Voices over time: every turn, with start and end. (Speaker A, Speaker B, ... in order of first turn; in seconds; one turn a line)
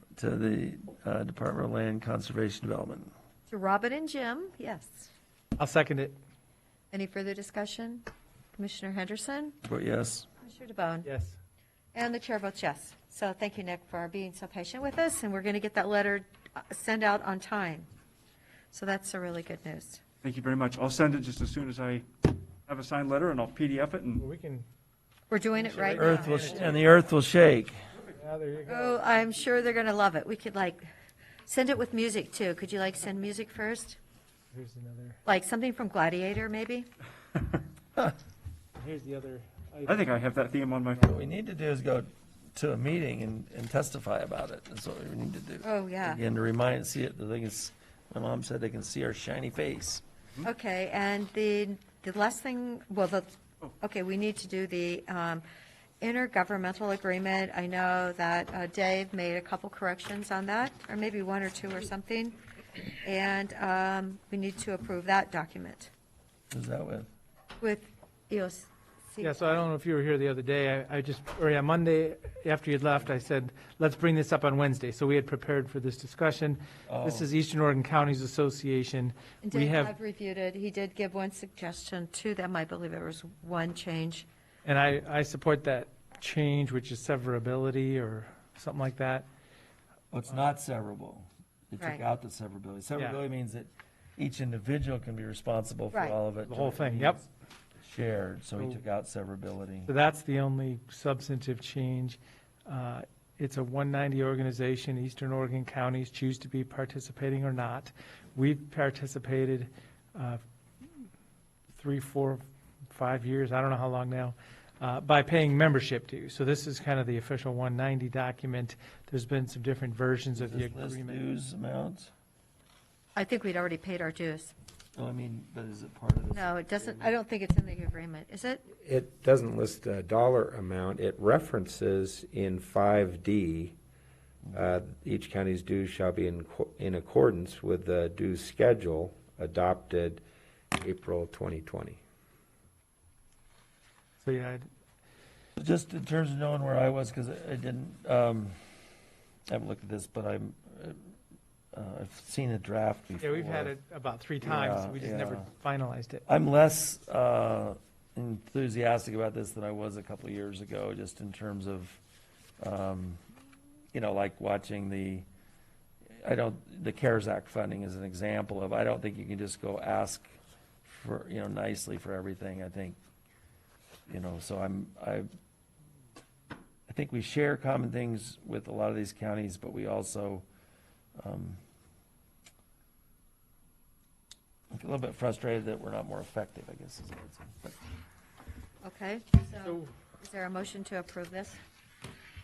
Speaker A: 0.2-3.1
Speaker B: 3.5-5.1
Speaker C: 5.6-6.2
Speaker B: 6.9-8.1
Speaker B: 8.6-9.6
Speaker A: 9.7-10.3
Speaker B: 10.4-11.1
Speaker C: 11.1-11.4
Speaker B: 11.9-17.9
Speaker B: 18.7-20.0
Speaker D: 20.2-24.2
Speaker C: 24.2-24.7
Speaker B: 25.3-26.6
Speaker C: 25.6-26.8
Speaker A: 25.9-27.8
Speaker C: 28.1-29.1
Speaker B: 28.7-30.8
Speaker B: 31.5-34.0
Speaker C: 34.5-35.2
Speaker B: 35.2-36.9
Speaker C: 38.8-40.1
Speaker D: 39.9-41.1
Speaker A: 41.0-50.0
Speaker B: 45.6-46.2
Speaker B: 50.4-53.3
Speaker B: 53.8-55.5
Speaker B: 56.0-62.4
Speaker B: 63.0-65.9
Speaker A: 66.5-67.1
Speaker B: 67.6-69.5
Speaker C: 69.2-79.9
Speaker A: 76.9-77.3
Speaker B: 79.4-84.3
Speaker C: 84.7-89.3
Speaker A: 90.1-97.3
Speaker C: 93.0-93.2
Speaker B: 95.9-96.2
Speaker C: 96.4-97.2
Speaker A: 97.8-99.9
Speaker C: 99.9-110.4
Speaker C: 111.7-121.2
Speaker A: 120.4-122.1
Speaker B: 123.2-124.5
Speaker A: 125.0-127.1
Speaker B: 126.3-128.7
Speaker E: 128.8-133.8
Speaker E: 134.5-140.2
Speaker E: 140.7-142.0
Speaker C: 144.2-144.7
Speaker A: 145.6-148.6
Speaker A: 149.5-151.0
Speaker A: 151.7-153.7
Speaker C: 153.2-156.2
Speaker A: 154.4-155.5
Speaker A: 156.3-162.0
Speaker A: 162.6-163.2
Speaker A: 163.9-165.3
Speaker A: 166.2-170.3
Speaker A: 170.8-173.0
Speaker A: 174.1-175.3
Speaker A: 176.9-180.4
Speaker A: 181.2-181.6
Speaker A: 184.7-187.8
Speaker B: 188.8-191.6
Speaker C: 189.6-189.9